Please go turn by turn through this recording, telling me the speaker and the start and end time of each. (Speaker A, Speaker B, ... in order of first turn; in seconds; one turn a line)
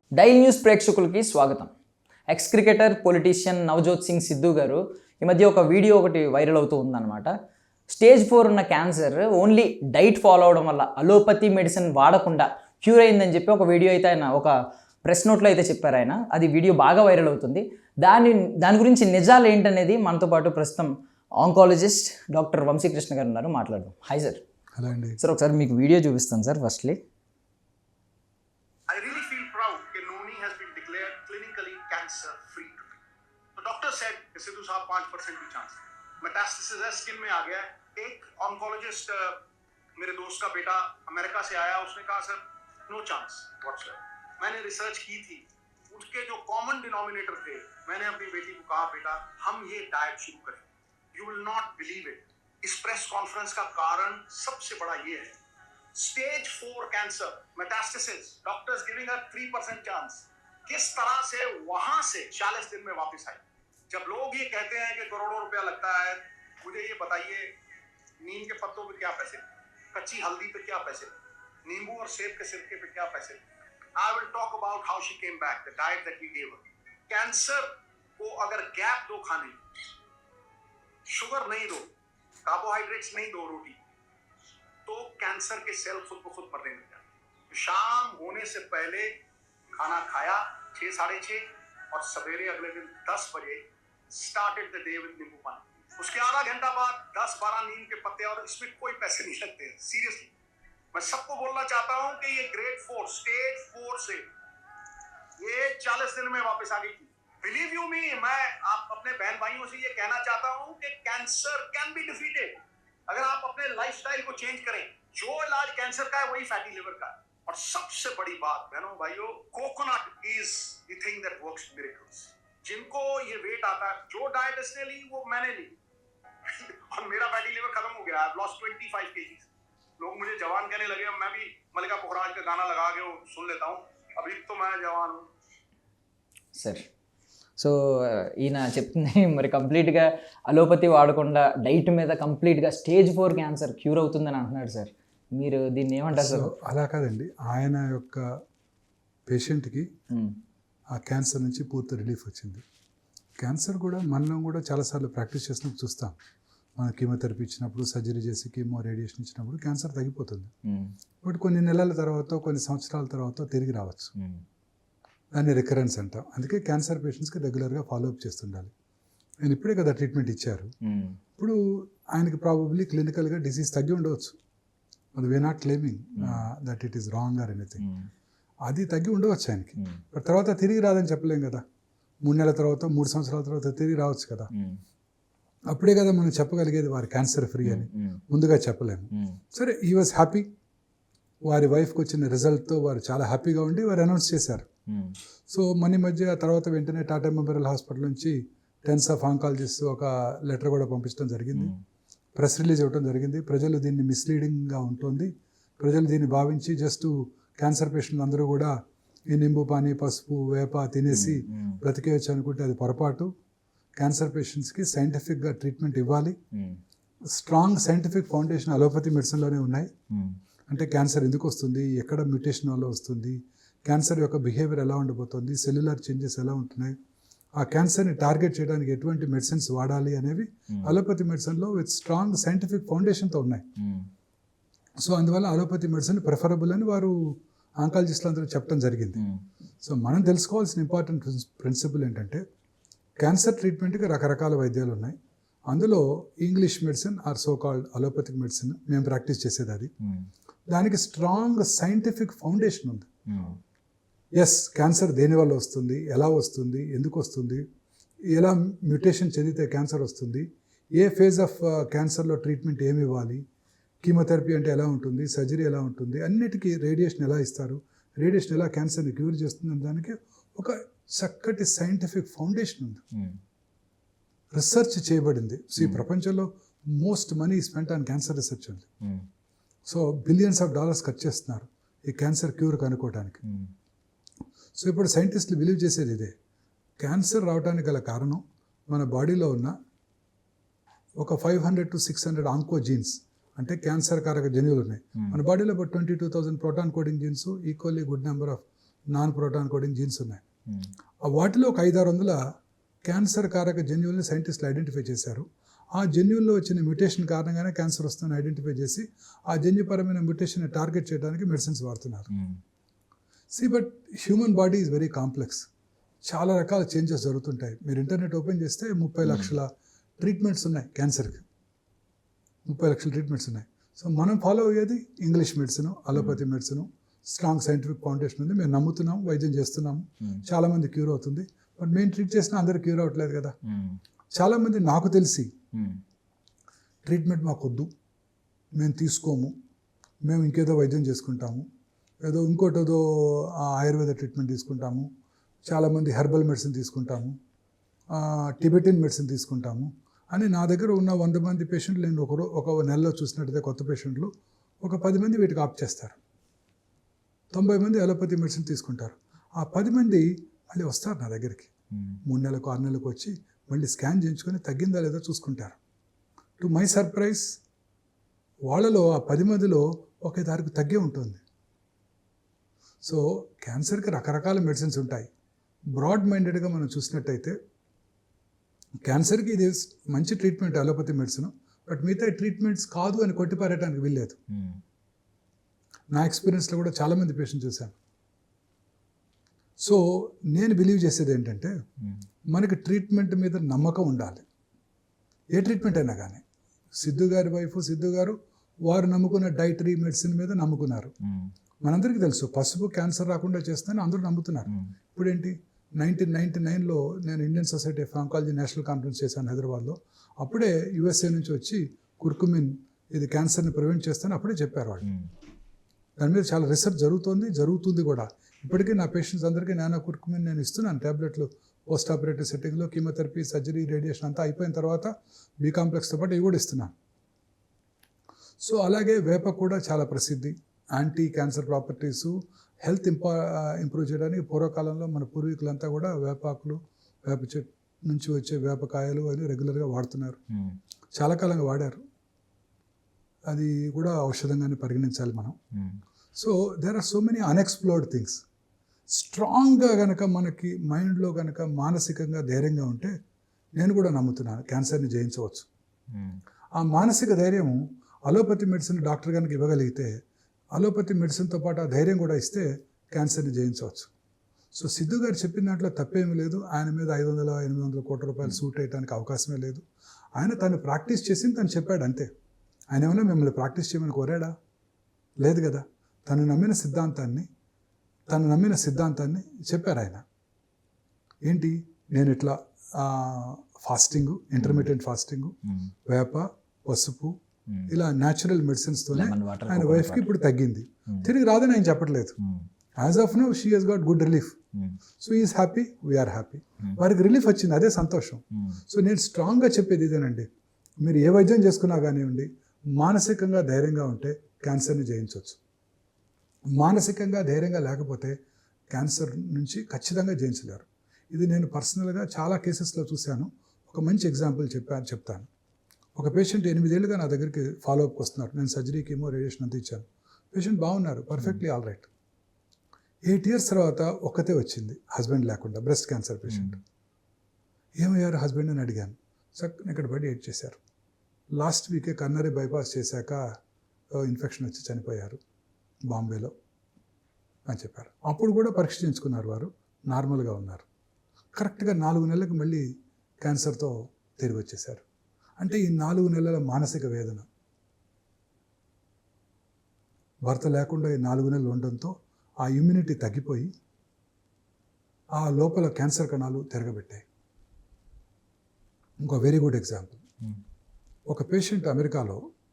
Speaker A: 0.2-1.7
Speaker A: 2.3-7.3
Speaker A: 7.9-24.4
Speaker B: 24.8-25.2
Speaker A: 25.2-27.0
Speaker C: 28.9-32.9
Speaker C: 33.6-39.4
Speaker C: 40.0-55.4
Speaker C: 56.0-67.5
Speaker C: 68.2-73.4
Speaker C: 74.0-79.6
Speaker C: 81.1-81.8
Speaker C: 82.5-83.8
Speaker C: 84.9-89.1
Speaker C: 89.8-100.3
Speaker C: 100.9-104.3
Speaker C: 105.4-112.5
Speaker C: 113.1-125.8
Speaker C: 126.5-129.5
Speaker C: 130.0-135.3
Speaker A: 136.6-136.9
Speaker A: 137.6-146.5
Speaker B: 146.1-148.3
Speaker B: 149.3-149.9
Speaker A: 150.1-150.4
Speaker B: 150.9-152.6
Speaker B: 153.4-156.2
Speaker B: 156.8-160.5
Speaker A: 160.7-160.9
Speaker B: 161.2-164.1
Speaker A: 164.2-164.4
Speaker B: 165.3-168.7
Speaker B: 169.4-170.7
Speaker A: 170.8-171.2
Speaker B: 171.4-174.4
Speaker B: 175.2-177.8
Speaker A: 176.2-176.5
Speaker A: 177.8-178.1
Speaker B: 178.7-181.6
Speaker A: 179.8-180.0
Speaker B: 182.2-184.5
Speaker A: 184.5-184.8
Speaker B: 185.7-190.5
Speaker A: 187.6-188.2
Speaker A: 189.1-189.4
Speaker B: 191.4-194.7
Speaker A: 194.9-195.2
Speaker B: 195.5-201.7
Speaker A: 201.5-201.8
Speaker B: 202.4-208.8
Speaker B: 209.3-213.3
Speaker A: 211.1-211.8
Speaker B: 214.0-216.4
Speaker A: 216.5-216.8
Speaker B: 217.3-219.9
Speaker A: 220.1-220.4
Speaker B: 220.7-227.0
Speaker B: 227.6-233.7
Speaker A: 230.7-231.0
Speaker A: 233.8-234.1
Speaker B: 235.0-239.2
Speaker A: 239.2-239.4
Speaker B: 239.8-242.4
Speaker B: 243.2-245.2
Speaker B: 245.7-249.9
Speaker A: 250.0-250.3
Speaker B: 250.7-253.1
Speaker A: 253.3-253.6
Speaker B: 254.4-257.6
Speaker B: 258.3-263.4
Speaker B: 264.0-273.0
Speaker A: 273.1-273.4
Speaker B: 274.5-278.9
Speaker A: 275.8-276.0
Speaker B: 279.9-283.4
Speaker A: 283.4-283.7
Speaker B: 284.8-286.3
Speaker B: 287.0-289.8
Speaker B: 291.2-300.4
Speaker B: 301.2-302.4
Speaker B: 303.1-312.3
Speaker A: 312.3-312.6
Speaker B: 313.5-315.7
Speaker B: 316.2-321.4
Speaker A: 319.2-319.5
Speaker B: 322.7-333.5
Speaker A: 326.1-326.4
Speaker A: 333.7-334.0
Speaker B: 334.4-335.5
Speaker A: 335.7-336.0
Speaker B: 337.1-337.9
Speaker B: 338.8-339.5
Speaker B: 340.3-341.7
Speaker B: 342.2-345.1
Speaker B: 345.7-347.4
Speaker B: 348.1-354.3
Speaker B: 354.8-356.2
Speaker B: 357.5-361.7
Speaker B: 362.3-365.8
Speaker B: 366.6-367.6
Speaker B: 368.7-371.4
Speaker B: 373.0-375.3
Speaker B: 375.9-377.6
Speaker B: 379.0-384.4
Speaker A: 384.5-384.8
Speaker B: 386.1-387.9
Speaker B: 389.8-391.7
Speaker B: 392.5-394.4
Speaker B: 395.5-401.1
Speaker A: 401.2-401.5
Speaker B: 401.8-415.1
Speaker A: 415.0-415.3
Speaker B: 416.2-426.9
Speaker B: 428.6-440.4
Speaker A: 440.5-440.8
Speaker B: 441.2-442.0
Speaker B: 443.5-445.6
Speaker A: 445.7-446.0
Speaker B: 446.4-448.4
Speaker B: 449.1-453.1
Speaker B: 453.8-455.7
Speaker A: 456.1-456.4
Speaker B: 456.8-460.1
Speaker B: 460.7-464.1
Speaker B: 464.7-469.8
Speaker B: 470.4-472.3
Speaker B: 472.9-474.5
Speaker B: 475.4-477.5
Speaker B: 478.3-480.2
Speaker B: 481.4-485.6
Speaker A: 484.6-484.9
Speaker A: 485.7-485.9
Speaker B: 486.1-487.4
Speaker B: 487.9-492.4
Speaker A: 489.1-490.3
Speaker A: 492.4-492.7
Speaker B: 493.0-494.6
Speaker B: 495.2-500.5
Speaker A: 498.5-498.8
Speaker B: 501.0-505.6
Speaker B: 506.8-508.4
Speaker B: 508.9-515.5
Speaker B: 516.2-522.1
Speaker B: 523.2-526.8
Speaker A: 526.5-526.8
Speaker B: 528.0-530.8
Speaker B: 531.5-533.5
Speaker B: 534.1-535.4
Speaker B: 536.1-536.5
Speaker B: 537.7-540.9
Speaker B: 541.5-542.9
Speaker B: 543.4-545.0
Speaker B: 545.6-547.5
Speaker B: 550.5-553.7
Speaker B: 555.4-557.2
Speaker B: 559.2-560.2
Speaker B: 561.3-562.5